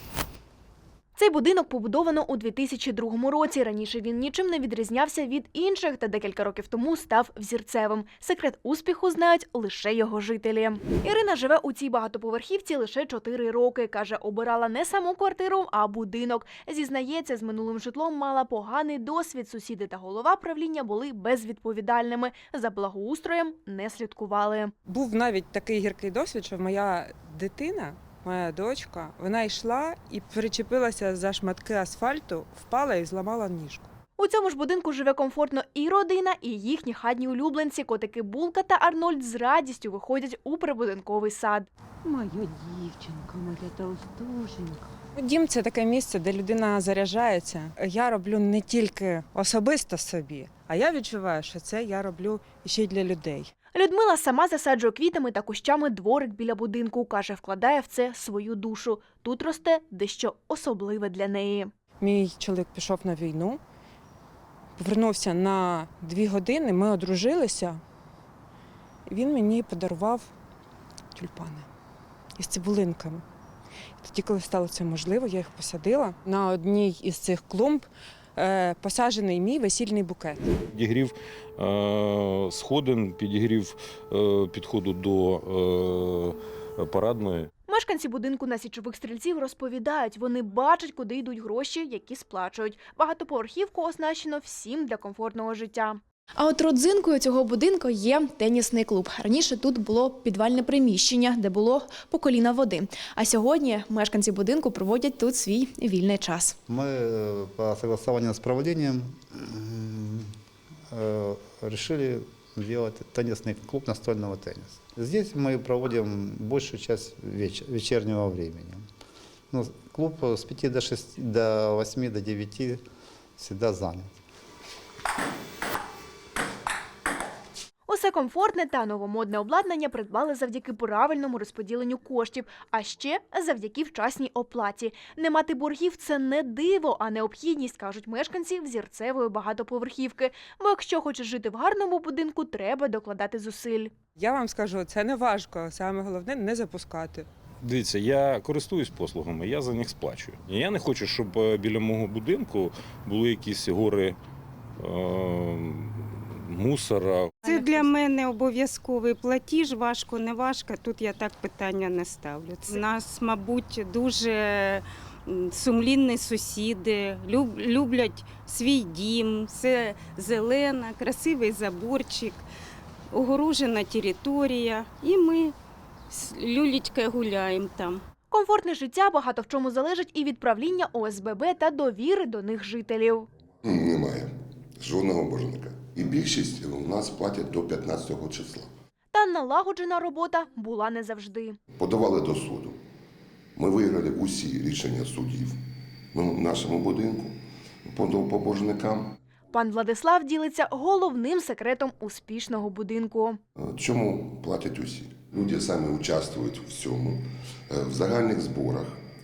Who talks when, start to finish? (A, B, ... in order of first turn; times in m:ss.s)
0:01.2-0:24.7 A
0:24.9-0:33.9 B
0:34.2-0:41.7 A
0:42.0-0:53.5 B
0:53.7-1:01.7 A
1:02.0-1:03.6 B
1:04.8-1:07.8 B
1:09.1-1:10.3 B
1:11.2-1:11.7 B
1:12.4-1:13.2 B
1:14.0-1:20.5 B
1:20.7-1:27.5 C
1:27.7-1:46.6 A
1:46.7-1:50.3 D
1:50.9-1:58.8 D
1:59.5-2:02.8 D
2:03.4-2:04.1 D
2:07.9-2:23.9 A
2:24.2-2:27.3 B
2:27.6-2:34.2 C
2:34.8-2:37.4 C
2:37.4-2:52.4 E
2:53.1-2:55.5 E
2:56.1-2:58.0 E
2:58.3-3:03.3 A
3:03.6-3:08.7 F
3:09.1-3:11.6 A
3:11.8-3:12.8 F
3:13.6-3:15.6 F
3:16.1-3:19.2 F
3:19.5-3:23.4 A
3:23.6-3:29.0 F